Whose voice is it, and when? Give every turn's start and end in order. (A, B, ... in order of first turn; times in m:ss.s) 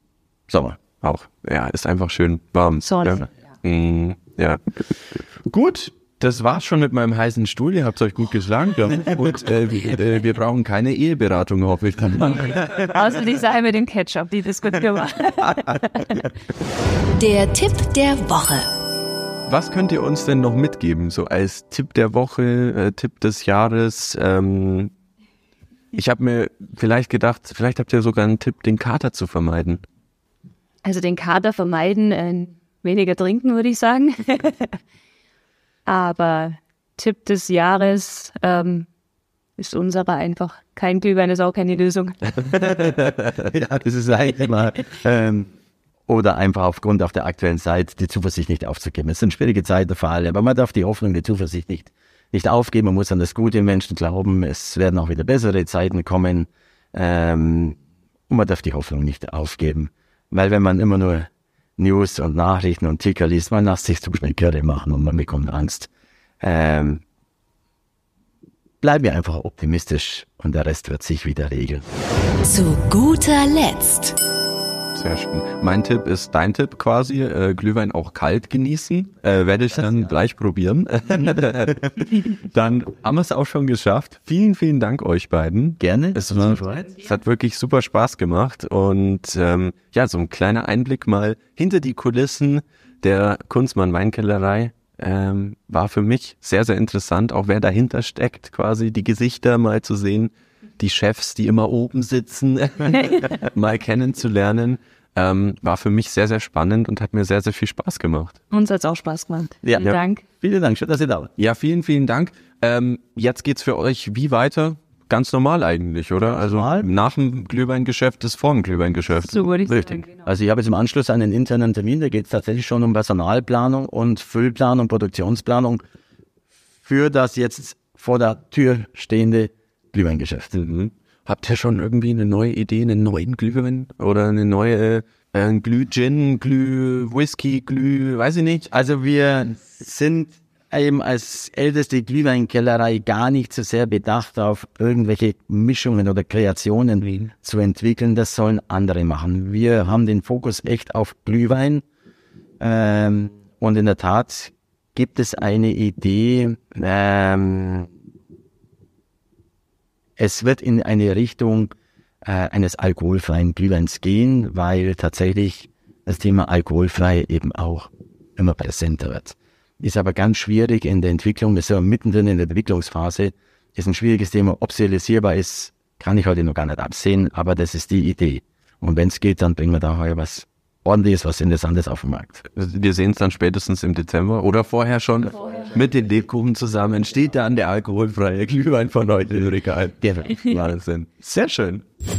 0:00.5-0:00.8 A
0:01.0-0:12.8 B
0:02.8-0:03.2 C
0:12.7-0:16.3 C
0:17.2-0:18.7 D
0:19.5-0:24.9 B
0:25.9-0:29.8 B
0:30.8-0:34.8 C
0:35.9-0:38.9 C
0:39.6-0:42.2 C
0:42.4-0:45.5 A
0:46.1-0:57.8 A
0:58.3-1:05.9 A
1:06.4-1:07.0 A
1:08.8-1:11.8 A
1:12.4-1:14.2 D
1:14.9-1:48.4 B
1:25.8-1:27.0 A
1:48.5-1:50.2 C
1:49.6-1:51.3 A
1:51.4-1:59.4 B
1:56.3-1:56.9 A
1:59.2-2:00.1 C
1:59.7-2:05.8 A
2:06.8-2:10.6 A
2:10.6-2:18.7 B
2:18.7-2:31.8 A
2:32.6-2:37.9 A
2:40.2-2:41.7 A
2:42.2-3:02.4 A
3:02.6-3:11.8 B